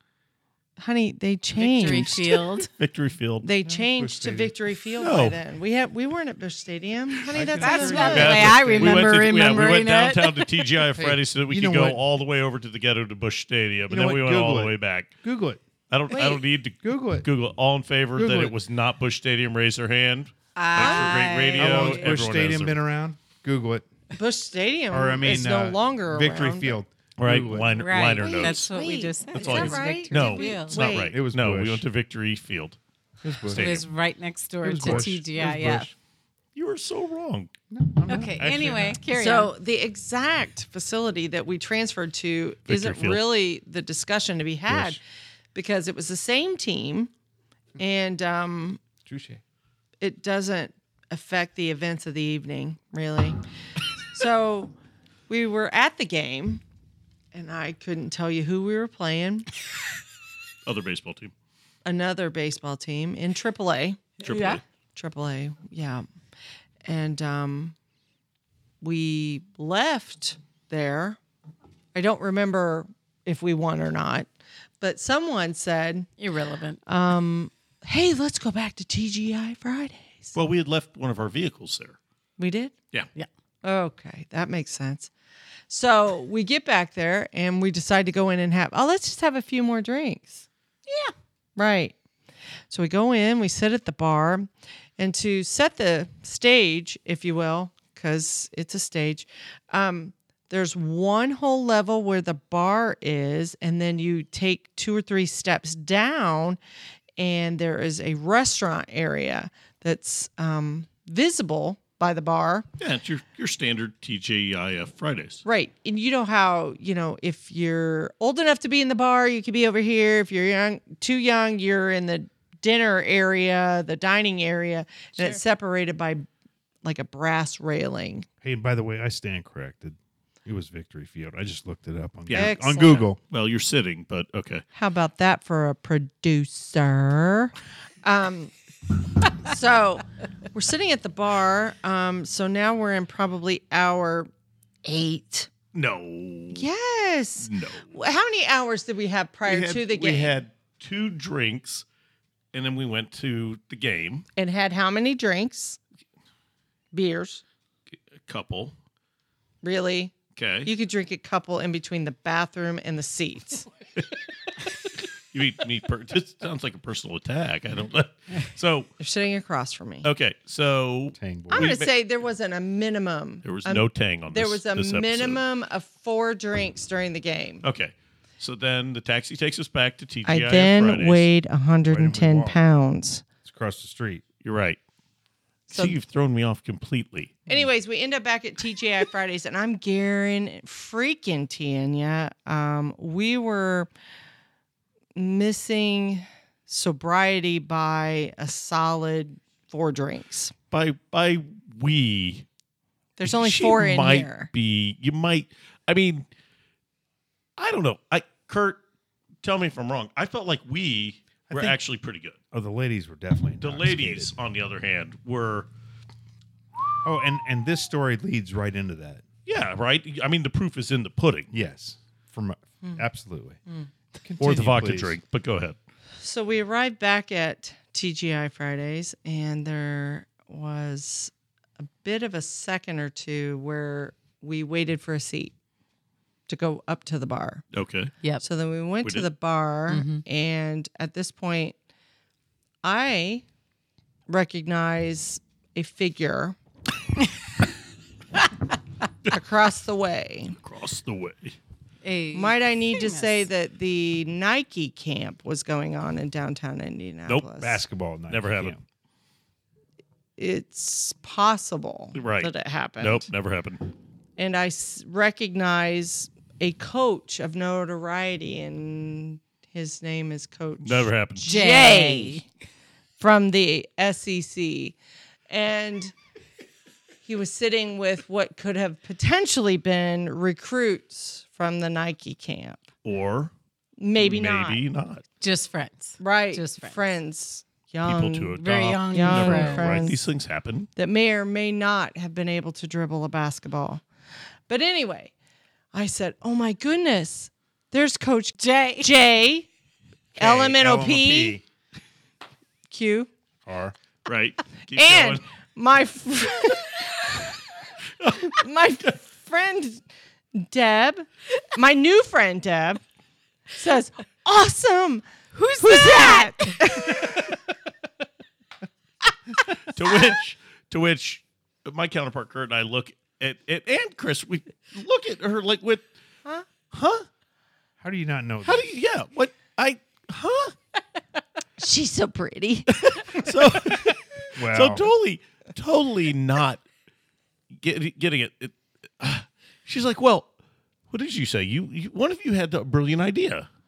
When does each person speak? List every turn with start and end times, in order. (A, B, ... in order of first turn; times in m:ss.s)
0:00.8-0:02.4 A
0:01.6-0:02.7 B
0:02.7-0:03.4 C
0:03.4-0:08.8 A
0:03.6-0:04.5 D
0:05.0-0:05.4 C
0:07.3-0:09.4 D
0:07.6-0:10.5 B
0:07.9-0:15.1 C
0:11.0-0:12.0 D
0:13.9-0:15.6 D
0:15.9-0:22.8 C
0:16.1-0:16.4 A
0:16.8-0:17.3 D
0:18.2-0:18.5 D
0:20.6-0:22.1 A
0:20.7-0:21.5 B
0:21.6-0:23.8 D
0:24.1-0:26.8 A
0:24.9-0:27.9 D
0:27.2-0:28.7 C
0:27.8-0:30.8 B
0:28.2-0:31.1 A
0:29.3-0:32.8 C
0:31.1-0:31.8 D
0:33.2-0:33.9 D
0:33.5-0:33.8 C
0:33.5-0:35.9 B
0:34.6-0:35.9 D
0:36.5-0:37.5 C
0:37.7-0:39.0 D
0:38.1-0:39.5 B
0:39.1-0:45.0 A
0:42.7-0:43.2 C
0:44.7-0:45.0 D
0:45.5-0:47.1 A
0:47.8-0:48.8 A
0:49.0-0:49.4 D
0:50.0-0:53.4 A
0:54.1-0:54.7 A
0:55.3-0:56.6 A
0:57.3-0:59.5 A
1:00.6-1:01.3 C
1:01.8-1:04.1 A
1:04.2-1:04.6 C
1:04.2-1:04.6 B
1:04.9-1:06.0 A
1:06.8-1:07.7 A
1:08.8-1:11.2 A
1:11.9-1:16.1 A
1:16.2-1:16.8 B
1:16.8-1:20.4 A
1:20.3-1:22.0 C
1:22.4-1:22.7 A
1:23.6-1:25.1 A
1:25.7-1:30.4 A
1:30.9-1:31.1 B
1:31.6-1:32.0 A
1:32.7-1:46.6 A
1:47.2-1:52.7 A
1:52.8-1:55.4 C
1:55.4-2:06.2 A
2:06.8-2:08.3 A
2:08.4-2:13.2 D
2:12.3-2:14.6 C
2:12.3-2:13.1 A
2:14.7-2:18.5 A
2:19.3-2:24.3 A
2:24.8-2:25.5 A
2:25.7-2:26.6 C
2:26.5-2:30.4 A
2:27.4-2:27.9 C
2:29.4-2:31.8 C
2:32.5-2:34.2 C
2:34.4-2:35.8 A
2:36.9-2:37.4 A
2:38.2-2:38.7 C
2:39.6-2:40.1 A
2:40.4-2:40.7 C
2:40.6-2:43.6 A
2:45.3-2:48.9 C
2:49.0-2:50.1 A
2:50.0-2:51.9 C
2:51.2-2:51.8 D
2:51.5-2:57.6 A
2:53.4-2:55.4 C
2:57.6-3:01.3 C
3:00.2-3:03.2 A
3:01.9-3:02.6 D
3:03.4-3:04.2 D
3:04.4-3:04.8 C
3:05.7-3:06.0 A
3:05.7-3:07.4 C
3:07.5-3:13.9 A
3:15.1-3:20.5 A
3:20.7-3:22.4 C
3:23.2-3:24.5 A
3:23.2-3:26.2 C
3:27.6-3:28.8 C
3:29.4-3:32.4 C
3:31.5-3:31.8 D
3:32.5-3:34.3 D
3:33.6-3:35.7 C
3:37.0-3:39.2 D
3:39.4-3:41.5 C
3:41.5-3:43.6 D
3:44.1-3:45.2 D
3:44.4-3:45.8 C
3:46.2-3:55.5 A
3:56.5-3:57.6 A
3:57.7-3:58.1 C
3:58.4-4:01.8 A
3:59.0-3:59.3 C
3:59.9-4:00.2 B
4:02.8-4:03.4 A
4:04.3-4:06.6 A
4:09.3-4:10.6 A
4:10.6-4:11.6 C
4:12.0-4:13.4 B
4:12.3-4:17.8 A
4:17.6-4:18.8 D
4:18.3-4:18.8 C
4:20.4-4:23.3 A
4:22.1-4:23.8 C
4:24.4-4:32.4 A
4:30.8-4:31.5 C
4:31.4-4:32.4 B
4:33.2-4:35.0 A
4:35.5-4:36.1 A
4:37.2-4:42.8 A
4:43.0-4:43.5 C
4:44.0-4:44.8 A
4:44.2-4:45.2 C
4:45.4-4:47.0 B
4:46.2-4:50.2 A
4:48.0-4:50.9 C
4:48.6-4:50.0 B
4:51.0-4:54.0 A
4:54.7-4:55.3 A
4:55.9-4:59.7 A
4:58.6-4:59.1 B
5:00.3-5:01.6 D
5:00.4-5:01.6 A
5:02.9-5:03.3 A
5:03.6-5:03.9 D
5:04.2-5:05.4 C
5:04.9-5:07.5 A
5:08.2-5:08.5 C
5:08.4-5:13.0 A
5:13.7-5:17.5 A
5:15.8-5:16.8 B
5:19.8-5:26.1 C
5:26.9-5:27.2 C
5:28.0-5:28.8 D
5:28.6-5:30.7 C
5:31.8-5:33.5 A
5:32.9-5:36.8 C
5:34.5-5:35.1 D
5:37.7-5:40.5 C
5:41.1-5:43.7 C